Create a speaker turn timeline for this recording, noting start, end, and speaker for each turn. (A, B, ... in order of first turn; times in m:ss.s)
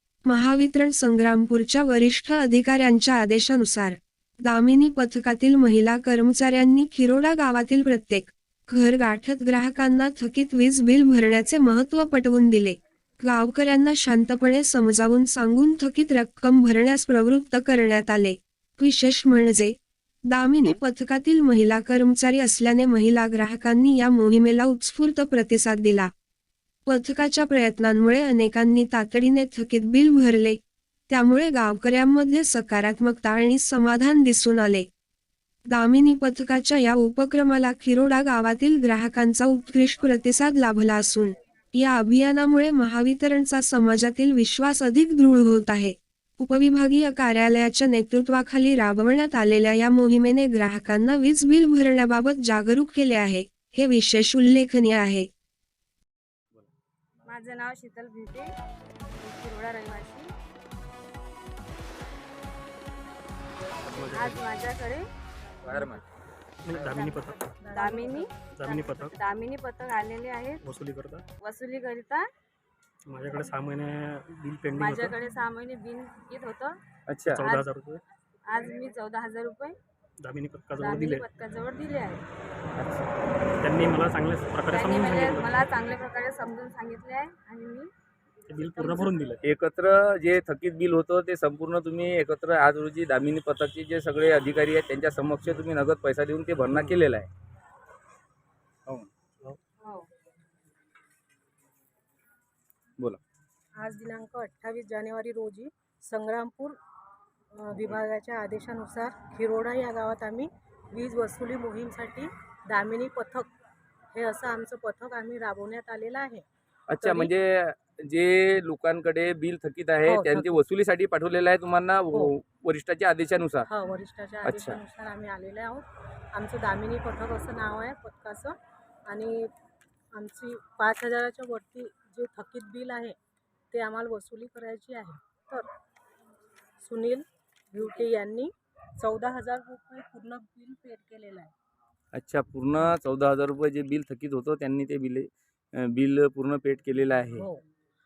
0:00.2-0:26.1 A
0:26.9-0:34.9 A
0:35.7-0:55.3 A
0:57.3-0:58.5 B
0:59.2-1:00.3 B
1:03.8-1:04.4 C
1:04.0-1:05.1 B
1:05.6-1:06.0 D
1:06.6-1:07.6 C
1:06.8-1:10.6 B
1:07.6-1:08.4 E
1:08.6-1:09.1 C
1:10.6-1:11.3 C
1:11.4-1:12.3 B
1:13.1-1:15.2 C
1:14.8-1:16.8 B
1:17.1-1:17.4 D
1:17.3-1:18.0 C
1:18.5-1:19.8 B
1:20.2-1:21.3 C
1:20.8-1:22.3 B
1:22.8-1:23.0 C
1:23.6-1:25.6 C
1:24.7-1:27.9 B
1:28.5-1:29.4 C
1:28.6-1:29.2 B
1:29.4-1:37.3 D
1:39.8-1:40.1 B
1:43.8-1:46.8 E
1:47.5-1:53.5 E
1:54.1-1:56.5 E
1:56.9-2:03.7 D
1:57.0-1:57.3 E
2:00.0-2:00.6 E
2:03.7-2:08.6 E
2:04.4-2:04.8 D
2:09.1-2:09.5 E
2:10.1-2:13.2 E
2:13.7-2:15.7 E
2:16.8-2:21.5 E
2:22.1-2:27.5 D
2:27.4-2:27.6 E